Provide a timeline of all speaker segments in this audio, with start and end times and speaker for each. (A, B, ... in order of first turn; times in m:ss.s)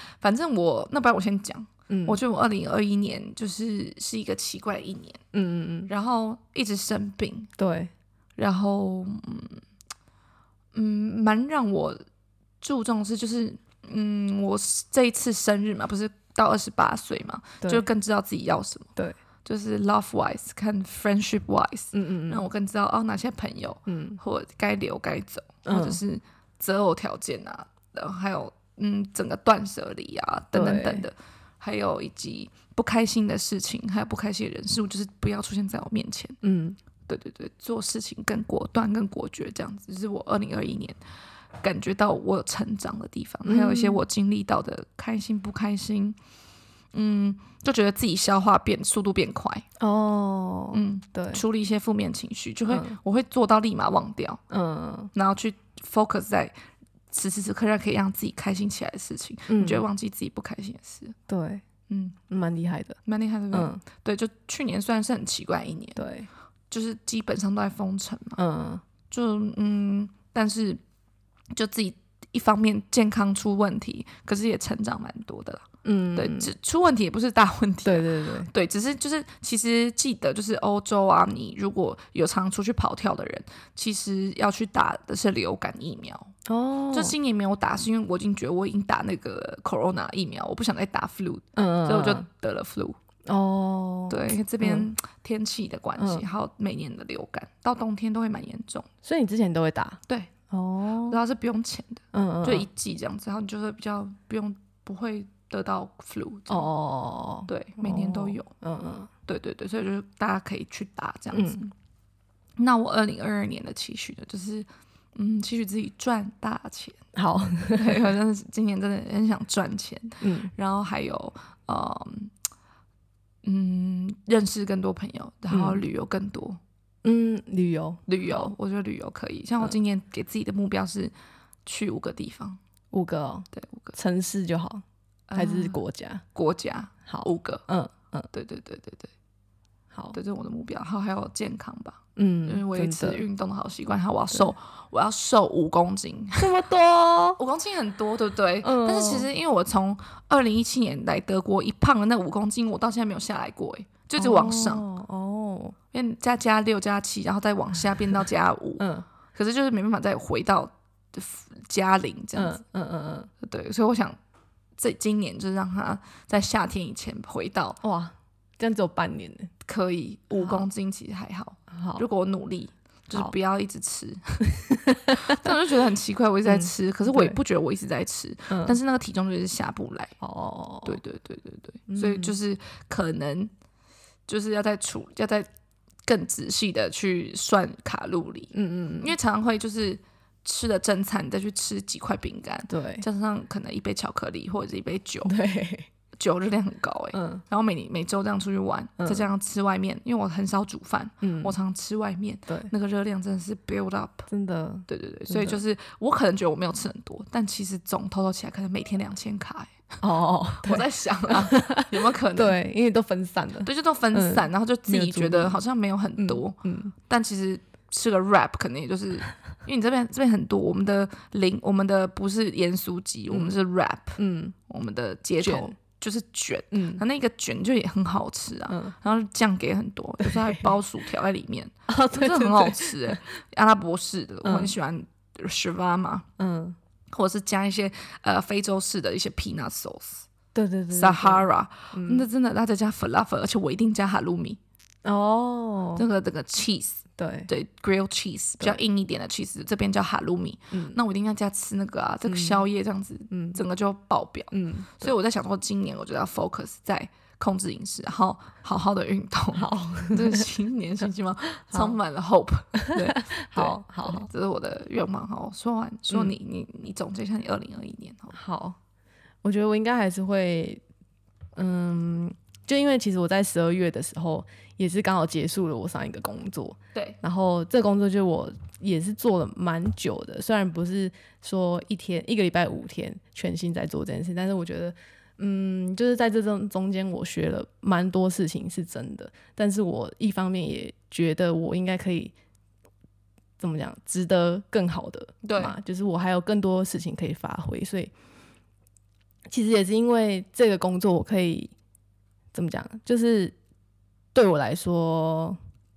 0:00.2-0:05.2 A
0:01.9-0:02.2 B
0:05.3-0:05.9 B
0:05.9-0:07.5 A
0:07.6-0:07.9 B
0:08.4-0:09.6 A
0:10.7-0:12.0 A
0:12.6-0:18.9 A
0:19.4-0:36.4 A
0:21.9-0:22.4 B
0:23.9-0:24.2 B
0:25.7-0:26.0 B
0:30.5-0:31.1 B
0:36.4-0:36.8 B
0:37.1-0:41.0 A
0:41.6-0:46.2 A
0:43.4-0:44.0 B
0:46.9-0:49.7 A
0:49.8-0:51.4 B
0:50.7-0:54.4 A
0:52.7-0:53.0 B
0:54.5-0:55.1 B
0:55.1-0:56.5 A
0:57.1-1:01.2 A
0:59.5-0:59.8 B
1:01.3-1:01.6 B
1:01.9-1:02.2 A
1:02.3-1:03.0 B
1:03.1-1:06.0 A
1:03.5-1:03.8 B
1:06.0-1:06.3 B
1:06.7-1:08.4 A
1:08.4-1:08.8 B
1:09.1-1:10.8 A
1:11.5-1:26.3 A
1:15.8-1:16.5 B
1:17.8-1:18.5 B
1:26.5-1:27.2 B
1:26.9-1:33.0 A
1:31.6-1:32.3 B
1:33.3-1:34.9 B
1:34.1-1:38.9 A
1:36.0-1:36.2 B
1:39.0-1:41.2 B
1:40.1-1:40.3 A
1:41.1-1:46.7 A
1:42.1-1:42.7 B
1:46.5-1:49.1 B
1:47.5-1:48.5 A
1:49.3-1:51.7 A
1:51.3-1:51.6 B
1:52.6-1:57.0 A
1:57.2-1:58.1 B
1:57.7-2:02.3 A
2:00.2-2:00.5 B
2:03.4-2:06.6 A
2:05.5-2:05.8 B
2:07.0-2:08.5 B
2:08.1-2:11.1 A
2:11.7-2:12.6 A
2:12.9-2:14.8 B
2:13.5-2:14.0 A
2:15.3-2:15.8 A
2:15.4-2:16.2 B
2:16.4-2:17.7 A
2:17.1-2:18.3 B
2:18.3-2:19.1 A
2:20.1-2:26.5 A
2:22.2-2:23.2 B
2:26.4-2:27.4 B
2:27.4-2:34.8 A
2:28.6-2:29.3 B
2:34.2-2:35.8 B
2:35.9-2:42.6 A
2:38.8-2:39.1 B
2:42.4-2:43.3 B
2:43.4-2:44.2 A
2:44.8-2:47.8 A
2:47.8-2:49.5 B
2:49.7-2:54.5 A
2:50.4-2:50.6 B
2:51.7-2:52.0 B
2:54.6-2:55.6 B
2:55.1-3:00.2 A
2:56.5-2:57.4 B
2:58.5-2:58.8 B
3:00.2-3:01.0 B
3:00.8-3:03.5 A
3:01.9-3:02.3 B
3:04.3-3:05.5 A
3:06.1-3:15.3 A
3:08.5-3:09.2 B
3:12.7-3:13.0 B
3:15.2-3:15.9 B
3:16.2-3:24.3 A
3:17.1-3:17.4 B
3:19.0-3:19.2 B
3:21.2-3:21.6 B
3:24.3-3:25.6 B
3:24.9-3:30.0 A
3:30.0-3:35.6 B
3:30.6-3:32.6 A
3:33.6-3:56.3 A
3:36.2-3:37.0 B
3:44.2-3:44.6 B
3:45.4-3:45.7 B
3:46.7-3:47.0 B
3:48.7-3:48.9 B
3:50.2-3:50.7 B
3:51.9-3:53.2 B
3:54.4-3:54.7 B
3:56.4-3:56.8 B
3:57.1-4:00.3 A
4:00.6-4:02.3 B
4:00.9-4:04.6 A
4:05.0-4:06.0 B
4:06.0-4:28.4 A
4:07.2-4:07.5 B
4:10.7-4:11.0 B
4:12.2-4:12.6 B
4:13.3-4:13.6 B
4:14.5-4:15.1 B
4:19.6-4:20.5 B
4:21.7-4:22.0 B
4:22.8-4:24.3 B
4:28.3-4:28.8 B
4:29.4-4:30.8 B
4:31.6-4:52.3 B
4:53.6-4:58.1 B
4:55.4-4:55.8 A
4:59.5-5:01.7 B
5:02.5-5:03.6 B
5:04.3-5:05.6 B